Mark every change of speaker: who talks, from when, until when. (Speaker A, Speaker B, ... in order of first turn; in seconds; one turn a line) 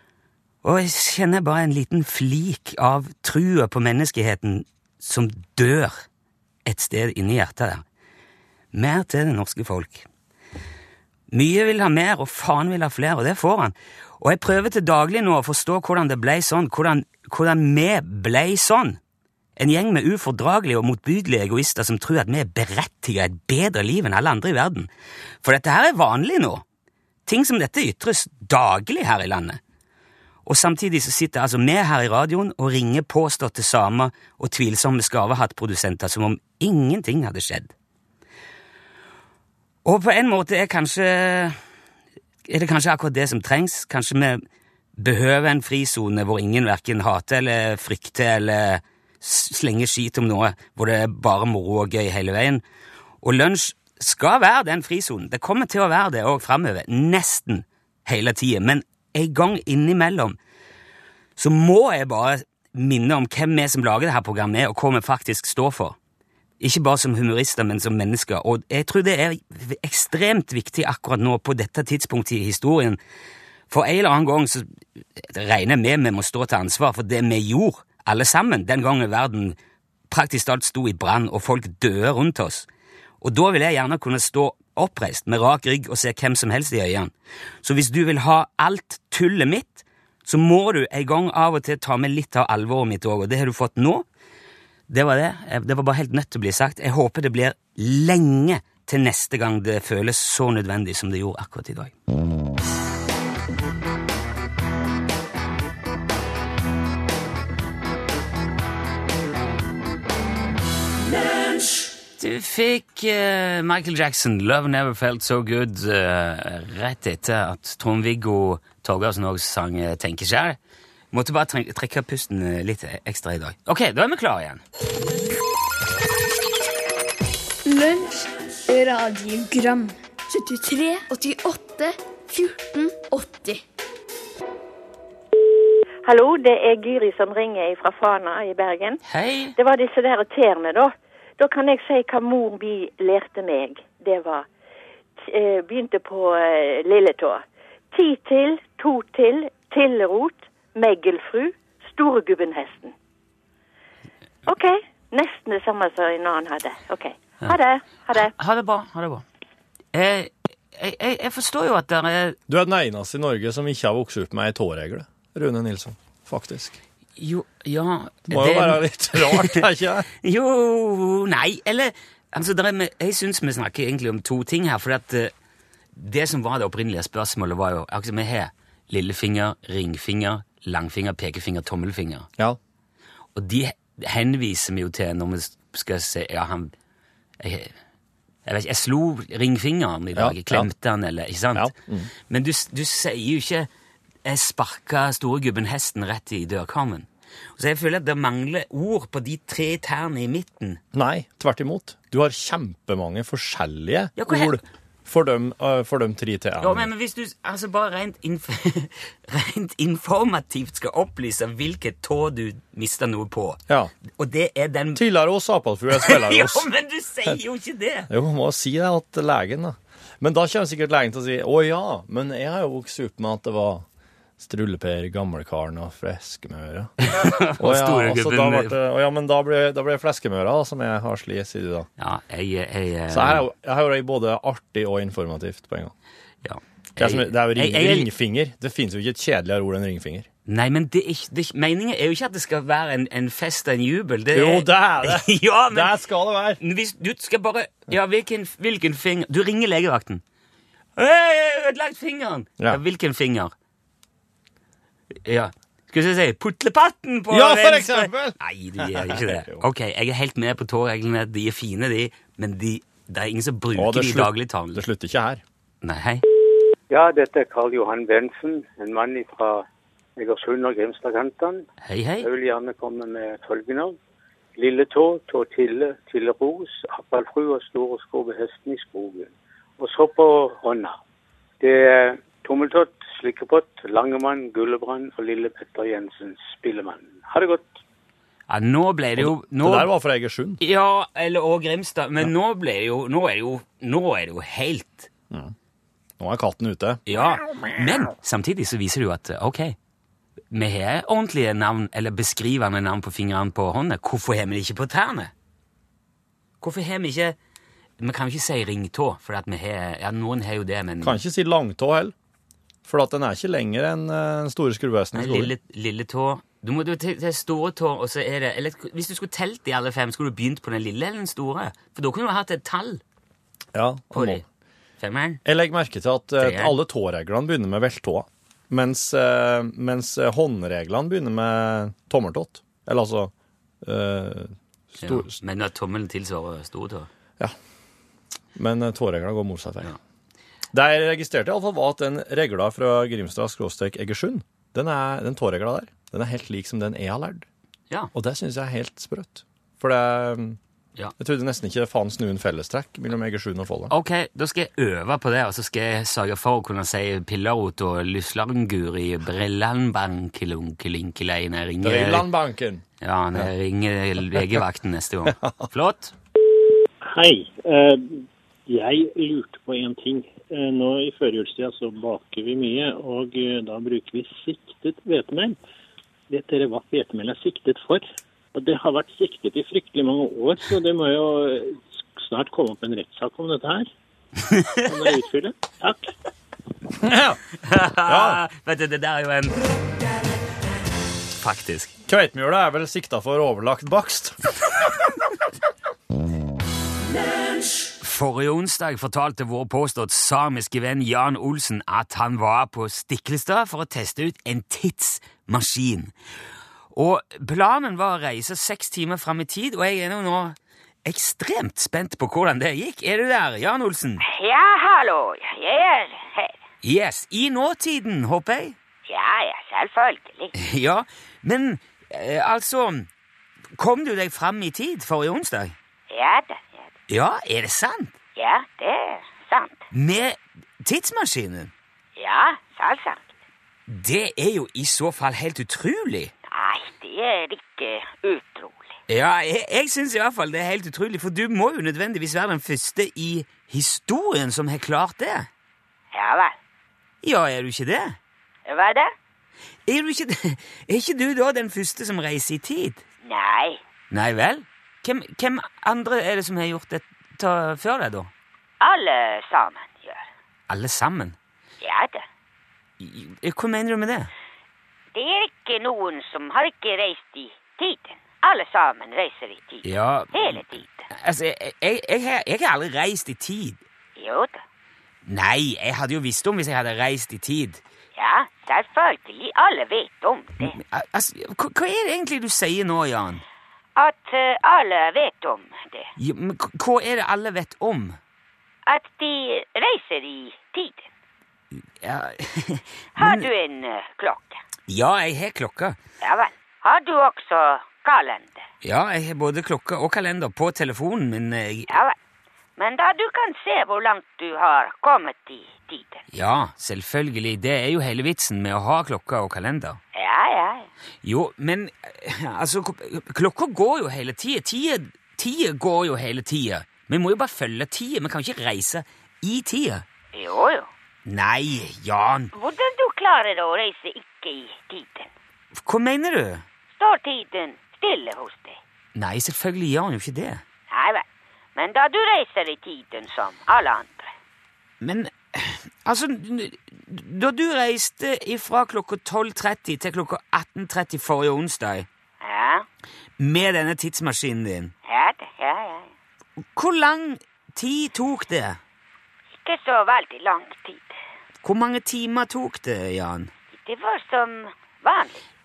Speaker A: 0.6-6.0
Speaker A: 6.7-7.8
Speaker A: 8.7-10.1
Speaker A: 11.3-19.0
Speaker A: 19.6-24.9
Speaker A: 25.4-26.6
Speaker A: 27.3-29.6
Speaker A: 30.4-37.7
Speaker A: 39.9-41.6
Speaker A: 42.5-44.4
Speaker A: 45.0-52.6
Speaker A: 53.2-60.4
Speaker A: 61.4-66.0
Speaker A: 66.6-73.0
Speaker A: 73.7-79.6
Speaker A: 80.1-82.7
Speaker A: 83.2-87.1
Speaker A: 87.6-94.0
Speaker A: 94.9-101.9
Speaker A: 112.2-120.6
Speaker A: 121.1-124.6
Speaker B: 127.7-133.6
Speaker C: 136.1-139.0
Speaker A: 139.1-139.6
Speaker C: 139.6-144.5
Speaker C: 145.2-152.9
Speaker C: 154.5-158.3
Speaker A: 158.1-159.2
Speaker A: 159.9-162.4
Speaker D: 162.5-166.8
Speaker A: 167.2-169.7
Speaker D: 168.3-170.1
Speaker A: 170.2-175.3
Speaker A: 175.9-182.3
Speaker A: 183.3-186.7
Speaker A: 187.4-187.7
Speaker A: 188.5-191.7
Speaker D: 190.2-190.7
Speaker D: 191.6-192.1
Speaker A: 192.3-193.7
Speaker A: 194.2-200.8
Speaker D: 200.9-206.9
Speaker A: 204.2-204.6
Speaker A: 206.6-213.6
Speaker A: 214.2-215.0
Speaker D: 214.9-216.7
Speaker A: 216.0-218.1
Speaker D: 218.1-223.8
Speaker D: 224.4-231.9
Speaker A: 227.0-228.8
Speaker A: 232.0-233.4
Speaker D: 233.1-235.9
Speaker A: 236.4-238.1
Speaker D: 237.0-240.3
Speaker A: 240.5-246.0
Speaker D: 244.3-246.6
Speaker A: 246.6-250.2
Speaker A: 251.0-253.5
Speaker A: 255.2-264.9
Speaker D: 257.3-259.6
Speaker D: 263.8-265.4
Speaker A: 265.8-266.2
Speaker E: 266.9-269.7
Speaker E: 270.2-271.6
Speaker A: 271.8-272.3
Speaker E: 272.2-274.0
Speaker E: 274.6-281.0
Speaker E: 281.6-287.8
Speaker A: 288.5-289.9
Speaker D: 289.2-290.6
Speaker A: 290.6-295.1
Speaker D: 296.2-297.8
Speaker A: 297.1-299.8
Speaker A: 300.5-305.3
Speaker A: 306.6-307.4
Speaker A: 308.0-311.2
Speaker D: 311.0-312.1
Speaker D: 312.9-315.5
Speaker A: 315.1-323.0
Speaker D: 323.7-324.4
Speaker A: 324.1-324.4
Speaker A: 325.0-325.4
Speaker D: 325.4-333.3
Speaker A: 326.4-326.8
Speaker D: 333.8-335.3
Speaker A: 335.0-337.1
Speaker D: 338.6-339.9
Speaker D: 340.7-347.5
Speaker D: 348.1-350.6
Speaker D: 351.2-353.9
Speaker A: 353.9-362.3
Speaker D: 361.8-362.8
Speaker A: 363.0-366.1
Speaker D: 365.2-365.7
Speaker F: 367.1-375.6
Speaker F: 376.3-383.9
Speaker A: 384.5-384.8
Speaker F: 384.9-386.1
Speaker D: 387.0-387.4
Speaker A: 387.6-389.7
Speaker D: 388.0-388.4
Speaker A: 391.4-391.9
Speaker D: 392.1-394.5
Speaker A: 398.0-406.1
Speaker A: 406.9-414.2
Speaker G: 414.2-416.6
Speaker A: 416.8-418.8
Speaker G: 419.1-420.5
Speaker A: 420.6-423.1
Speaker A: 423.8-425.8
Speaker G: 426.1-426.9
Speaker A: 427.1-428.1
Speaker G: 428.4-429.9
Speaker A: 429.9-431.7
Speaker G: 432.2-433.3
Speaker A: 433.9-436.3
Speaker G: 436.5-438.9
Speaker A: 439.1-445.5
Speaker G: 446.1-446.6
Speaker A: 447.2-448.2
Speaker G: 448.7-449.1
Speaker A: 449.9-453.0
Speaker G: 453.2-453.8
Speaker A: 454.1-458.3
Speaker G: 458.8-460.3
Speaker A: 460.7-461.4
Speaker G: 461.8-462.2
Speaker A: 463.0-464.3
Speaker G: 465.1-471.1
Speaker A: 469.9-473.8
Speaker G: 474.2-474.6
Speaker A: 475.2-477.8
Speaker G: 478.2-480.8
Speaker A: 480.7-483.4
Speaker G: 484.0-486.1
Speaker A: 486.2-488.2
Speaker G: 488.9-491.1
Speaker A: 492.0-493.5
Speaker G: 493.2-494.6
Speaker A: 494.9-496.0
Speaker G: 496.2-498.6
Speaker A: 498.8-501.9
Speaker G: 501.9-502.2
Speaker G: 502.8-506.2
Speaker A: 506.3-510.0
Speaker G: 510.1-510.9
Speaker A: 511.2-520.0
Speaker G: 520.3-520.9
Speaker A: 521.2-522.5
Speaker G: 522.5-525.3
Speaker A: 525.8-526.6
Speaker G: 527.0-528.8
Speaker A: 529.1-530.6
Speaker G: 530.9-531.2
Speaker G: 531.8-534.3
Speaker A: 535.0-542.1
Speaker G: 542.4-542.9
Speaker A: 543.4-544.9
Speaker G: 545.1-546.1
Speaker A: 546.8-548.8
Speaker G: 549.5-551.2
Speaker A: 551.6-553.5
Speaker G: 553.7-555.4